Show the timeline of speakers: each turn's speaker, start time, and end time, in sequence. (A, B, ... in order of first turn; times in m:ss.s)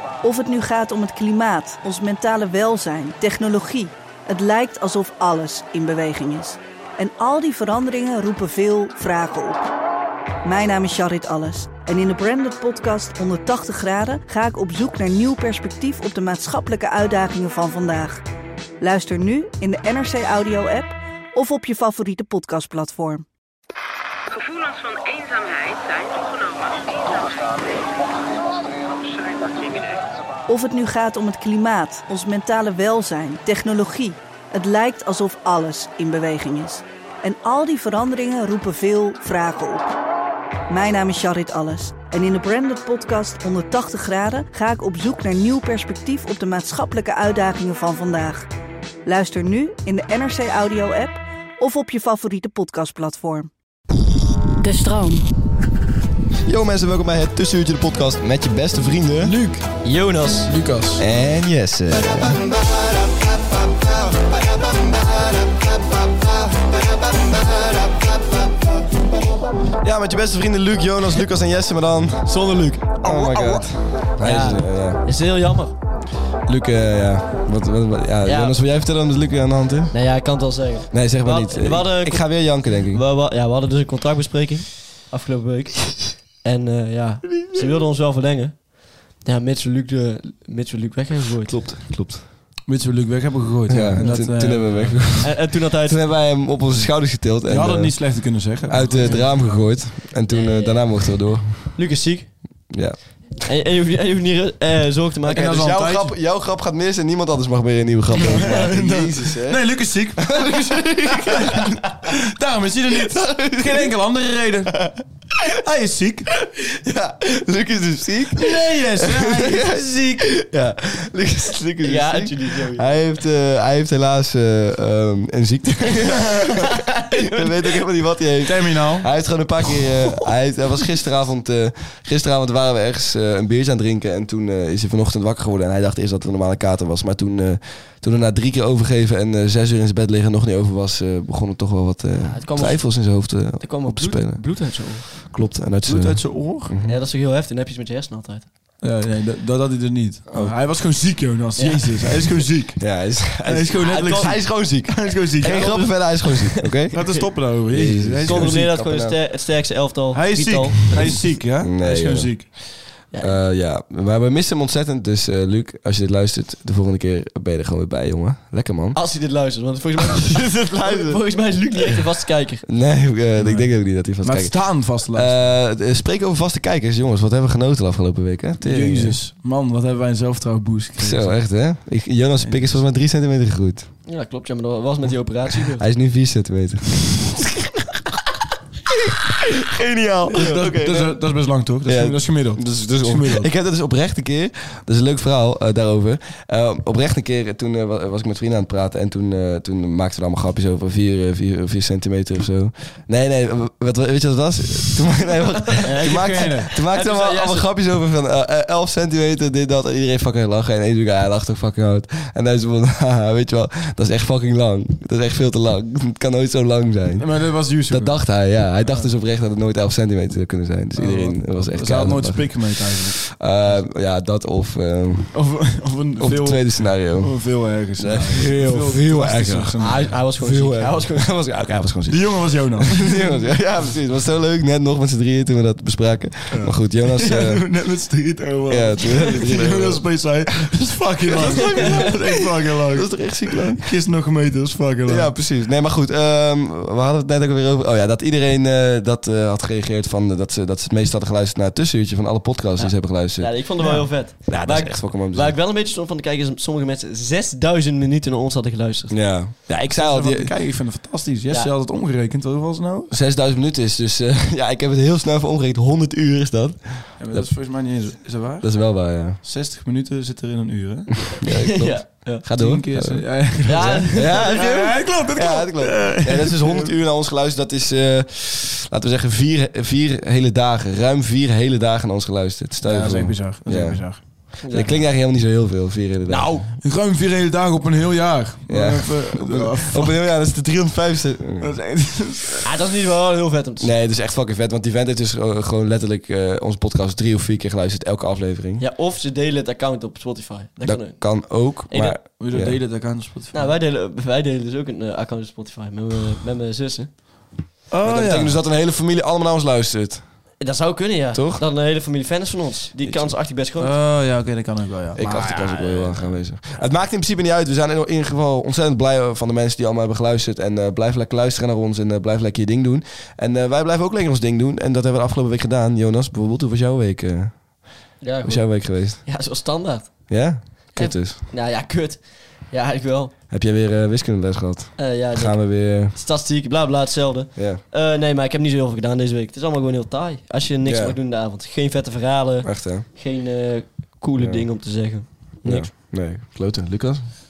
0:00.2-0:09.7 A
0:10.4-0:18.2 A
0:18.8-0:23.2 A
0:24.3-0:30.1 B
0:30.5-0:39.9 A
0:40.7-0:48.4 A
0:49.0-0:53.5 A
0:54.6-0:55.3 A
0:56.4-0:59.4 C
0:59.2-0:59.7 D
0:59.8-1:00.5 E
1:00.5-1:01.1 D
1:01.0-1:02.5 C
1:09.8-1:15.0 C
1:12.3-1:15.7 E
1:16.4-1:20.0 C
1:18.2-1:18.6 E
1:19.9-1:31.6 E
1:20.9-1:23.0 C
1:31.5-1:32.2 C
1:32.7-1:35.2 D
1:33.7-1:38.0 C
1:34.0-1:34.2 E
1:35.2-1:36.1 E
1:37.4-1:39.6 D
1:38.6-1:41.8 C
1:39.0-1:39.2 E
1:40.3-1:42.4 E
1:42.7-1:43.1 C
1:43.4-1:45.5 E
1:45.3-1:51.8 C
1:45.3-1:46.1 D
1:48.1-1:50.4 D
1:51.3-1:54.8 D
1:52.9-1:53.9 C
1:54.7-1:55.0 C
1:55.5-1:56.3 D
1:56.5-2:27.0 C
1:58.4-2:00.2 D
2:01.8-2:02.9 E
2:06.6-2:07.5 E
2:08.4-2:09.1 D
2:22.2-2:25.1 E
2:25.8-2:26.7 D
2:26.8-2:28.4 E
2:28.8-2:35.9 D
2:31.6-2:32.0 E
2:32.8-2:39.2 C
2:33.8-2:34.5 E
2:35.4-2:37.2 E
2:36.9-2:38.7 D
2:38.2-2:41.2 E
2:40.1-2:42.5 D
2:41.6-2:49.0 C
2:43.1-2:43.4 E
2:48.9-2:52.6 E
2:50.0-2:51.2 C
2:52.6-2:59.2 C
2:53.4-2:55.5 D
2:58.6-3:01.4 D
3:01.0-3:03.9 C
3:02.4-3:02.8 D
3:04.1-3:05.8 E
3:05.8-3:07.6 C
3:09.6-3:45.6 C
3:10.3-3:10.6 E
3:10.3-3:13.5 D
3:25.8-3:26.7 D
3:26.9-3:27.7 E
3:37.2-3:39.1 D
3:41.0-3:43.7 D
3:45.3-3:50.2 D
3:46.2-3:57.6 C
3:49.8-3:51.3 E
3:52.1-3:53.3 D
3:56.5-4:05.3 D
3:58.7-4:00.2 C
4:01.3-4:03.9 C
4:05.0-4:15.6 C
4:12.8-4:19.2 E
4:13.8-4:14.1 D
4:19.1-4:20.5 C
4:19.9-4:23.1 D
4:23.1-4:27.5 C
4:27.2-4:31.2 D
4:28.6-4:29.4 C
4:31.3-4:46.7 C
4:31.5-4:32.4 E
4:32.5-4:36.9 D
4:33.6-4:34.5 E
4:42.8-4:44.2 D
4:44.6-4:45.0 E
4:46.3-4:50.1 D
4:48.7-4:51.7 C
4:51.6-4:52.6 D
4:52.6-4:53.9 E
4:53.8-4:58.8 C
4:58.8-5:02.2 E
5:00.8-5:02.8 C
5:02.4-5:03.7 D
5:03.5-5:07.1 E
5:07.9-5:08.6 D
5:08.0-5:10.6 C
5:10.6-5:13.9 E
5:11.3-5:11.6 C
5:13.0-5:13.4 C
5:13.8-5:15.8 D
5:15.2-5:29.2 C
5:15.2-5:16.2 E
5:28.2-5:33.3 E
5:30.3-5:31.4 C
5:33.5-5:36.2 C
5:35.0-5:45.9 E
5:37.6-5:37.8 C
5:40.8-5:41.2 C
5:42.6-5:43.0 C
5:44.4-5:47.3 C